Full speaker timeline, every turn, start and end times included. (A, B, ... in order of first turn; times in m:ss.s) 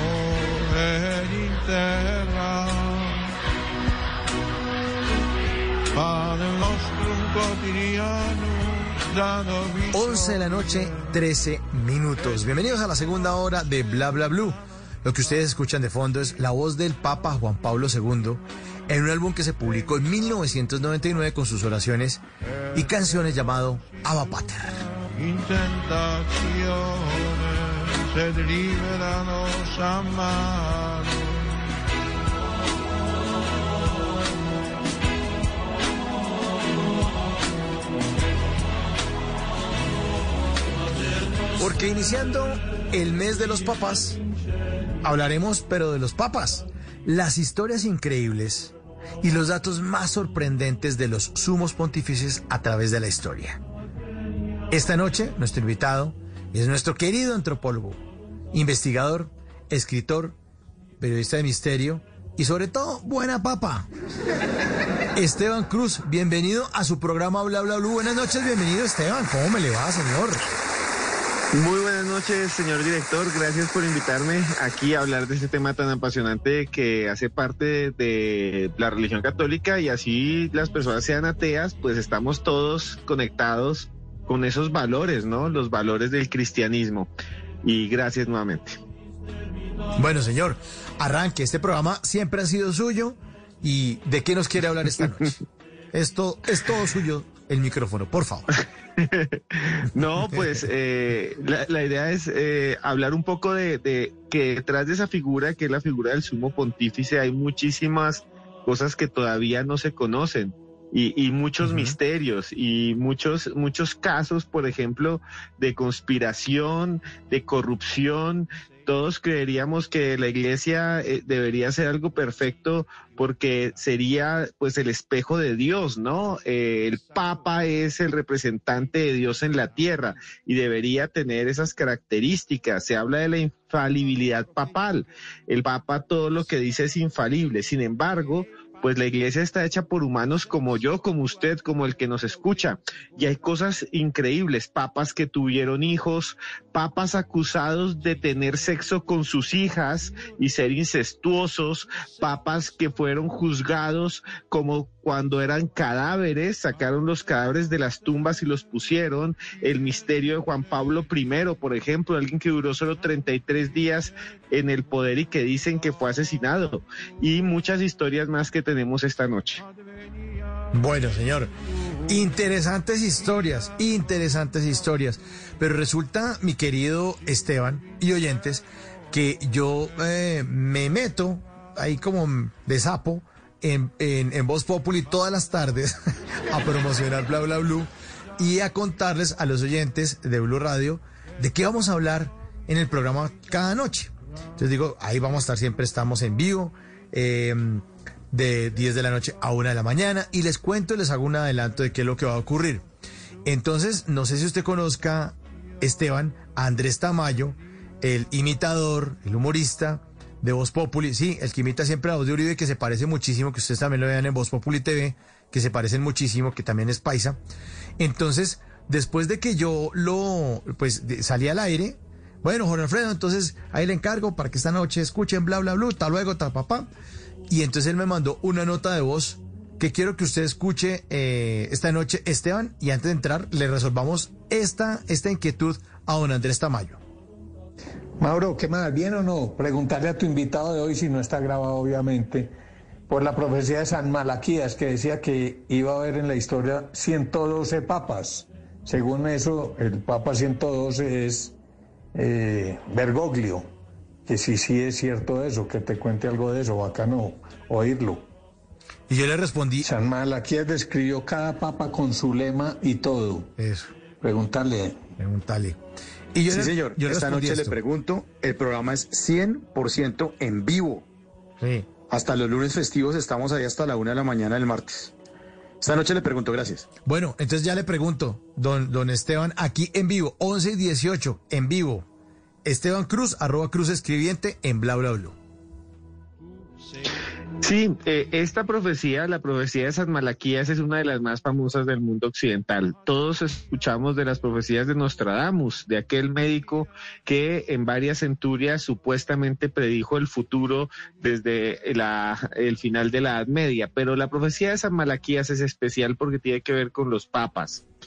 0:02.1-0:02.8 A
0:06.3-0:10.1 A
0:09.9-0:24.9 B
0:25.3-0:31.1 A
0:41.6-0:44.2 B
0:45.0-0:53.6 B
0:54.7-1:00.4 B
1:01.0-1:03.9 B
1:05.1-1:10.4 B
1:11.5-1:27.1 C
1:27.6-1:28.8 C
1:29.9-1:35.4 B
1:35.9-1:38.5 B
1:39.0-2:49.6 C
1:40.2-1:40.6 B
1:51.6-1:52.0 B
2:50.7-2:51.5 B
2:52.0-3:22.8 B
3:23.4-3:37.4 B
3:38.0-3:46.9 B
3:47.5-3:57.0 B
3:58.2-4:02.5 D
4:03.1-4:11.5 D
4:12.1-4:13.7 D
4:14.3-4:18.3 D
4:19.1-4:19.9 B
4:19.8-4:23.5 D
4:23.6-4:23.9 B
4:24.2-4:25.0 D
4:25.2-4:25.8 B
4:26.3-4:27.8 B
4:26.5-4:31.0 E
4:31.6-4:31.9 B
4:32.0-4:35.1 E
4:35.8-4:36.9 E
4:37.0-4:42.0 B
4:42.6-4:45.4 B
4:47.6-5:07.8 C